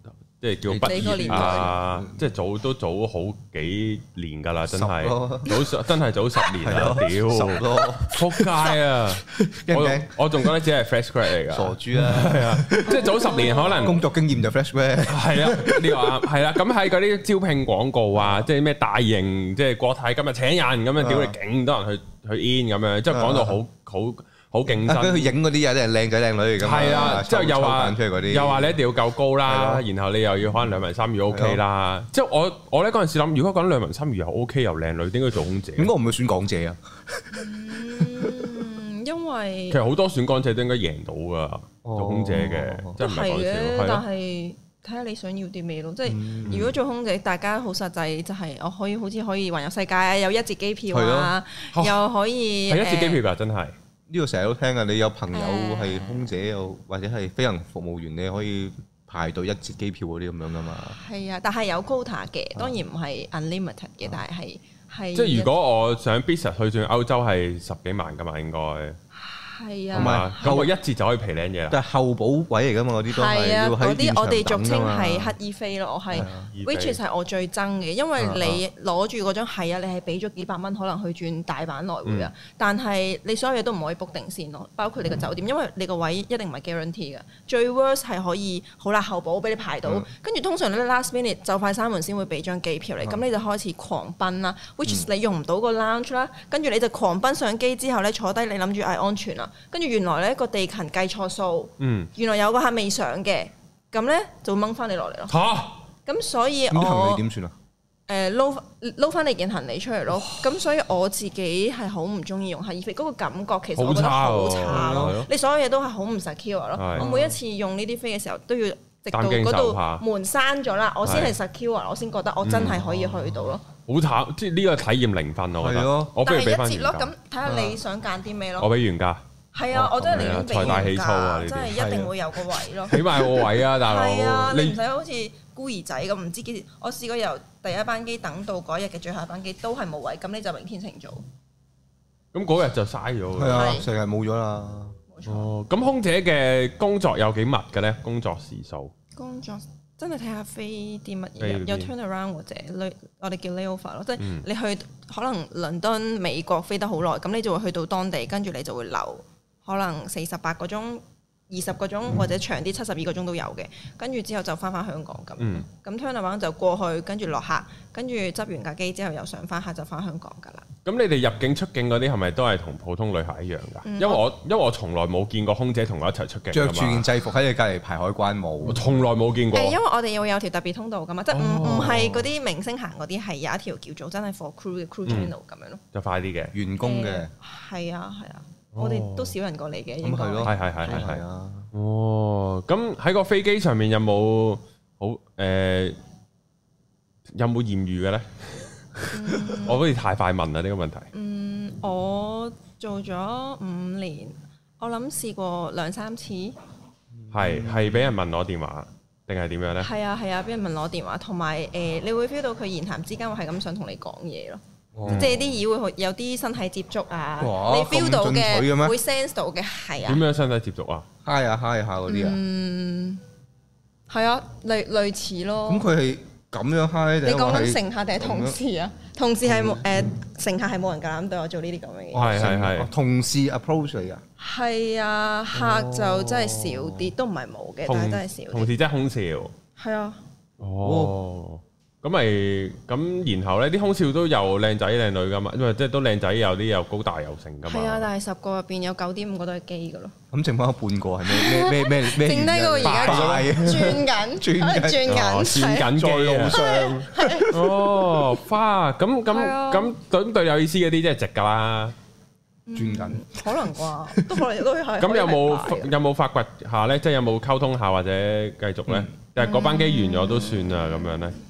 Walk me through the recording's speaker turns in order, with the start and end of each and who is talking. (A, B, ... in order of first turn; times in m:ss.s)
0:00.4-0:14.0 A
0:00.7-0:02.2 B
0:00.8-0:01.7 C
0:04.7-0:05.6 B
0:06.5-0:08.7 B
0:09.3-0:10.5 B
0:11.5-0:16.1 B
0:12.9-0:14.0 C
0:15.1-0:25.4 A
0:18.2-0:18.5 B
0:21.0-0:21.4 B
0:23.1-0:23.6 B
0:24.7-0:28.8 B
0:26.6-0:35.9 A
0:26.8-0:27.2 C
0:29.5-0:29.8 B
0:31.3-0:31.6 B
0:35.8-0:38.6 B
0:37.3-0:39.8 C
0:39.7-0:44.0 A
0:41.8-0:43.0 B
0:43.0-0:53.2 C
0:46.1-0:46.8 B
0:50.9-0:51.4 B
0:51.7-0:52.0 A
0:52.7-0:53.8 A
0:54.1-1:01.0 B
0:55.3-0:56.4 C
1:00.9-1:05.5 C
1:05.2-1:09.0 A
1:09.2-1:10.5 C
1:09.9-1:11.8 A
1:10.0-1:10.7 B
1:11.7-1:15.4 B
1:13.1-1:45.4 C
1:16.1-1:16.5 B
1:16.5-1:17.0 A
1:18.2-1:18.6 B
1:22.0-1:22.3 A
1:41.8-1:42.1 A
1:45.3-1:45.8 A
1:46.1-1:47.2 C
1:46.7-1:47.6 B
1:48.1-2:03.6 C
1:53.8-1:55.3 A
1:54.6-1:55.2 B
1:56.8-1:57.1 A
1:57.0-1:57.4 B
1:59.1-2:00.0 A
2:01.0-2:01.4 A
2:02.4-2:02.8 A
2:02.6-2:03.6 B
2:03.9-2:07.1 A
2:05.6-2:06.2 B
2:06.2-2:08.7 C
2:07.4-2:07.8 B
2:08.6-2:09.2 A
2:09.5-2:21.2 C
2:09.7-2:11.8 A
2:09.8-2:10.9 B
2:11.7-2:12.2 B
2:12.9-2:14.8 A
2:22.3-2:23.7 A
2:23.4-2:25.0 B
2:23.5-2:23.9 C
2:25.1-2:25.5 C
2:25.3-2:28.9 A
2:29.2-2:50.7 C
2:31.4-2:31.9 A
2:34.2-2:34.4 A
2:45.4-2:45.6 A
2:50.8-2:57.1 A
2:53.8-2:54.2 C
2:56.5-2:58.9 B
2:58.6-2:59.8 A
2:59.5-3:05.8 C
3:01.3-3:02.2 A
3:01.6-3:02.2 B
3:05.9-3:06.5 A
3:06.5-3:07.3 B
3:06.8-3:11.0 C
3:08.8-3:09.4 A
3:10.0-3:11.7 B
3:10.4-3:11.2 A
3:11.7-3:16.0 A
3:17.3-3:21.1 A
3:19.1-3:19.8 C
3:21.1-3:26.6 C
3:27.2-3:28.1 B
3:27.3-3:29.9 A
3:29.8-3:34.6 C
3:34.9-3:35.5 B
3:35.0-3:35.4 A
3:35.2-3:40.2 C
3:37.4-3:39.0 B
3:40.0-3:41.1 A
3:41.2-3:42.4 B
3:42.1-3:43.2 C
3:44.1-3:45.9 C
3:45.7-3:48.6 B
3:47.2-3:52.4 C
3:49.4-3:49.8 B
3:52.1-3:54.2 B
3:52.1-3:52.9 A
3:54.4-3:58.7 C
3:55.5-3:57.1 B
3:57.9-3:59.5 A
3:59.8-4:00.2 C
4:00.6-4:08.1 A
4:00.8-4:01.2 B
4:07.7-4:10.1 C
4:10.3-4:15.2 B
4:11.2-4:15.9 C
4:12.8-4:13.9 A
4:15.1-4:16.6 A
4:15.7-4:17.6 B
4:16.5-4:17.6 C
4:17.5-4:22.0 A
4:19.3-4:19.9 C
4:22.7-4:25.9 C
4:22.8-4:24.5 B
4:25.0-4:31.4 A
4:28.9-4:29.1 B
4:29.4-4:31.3 C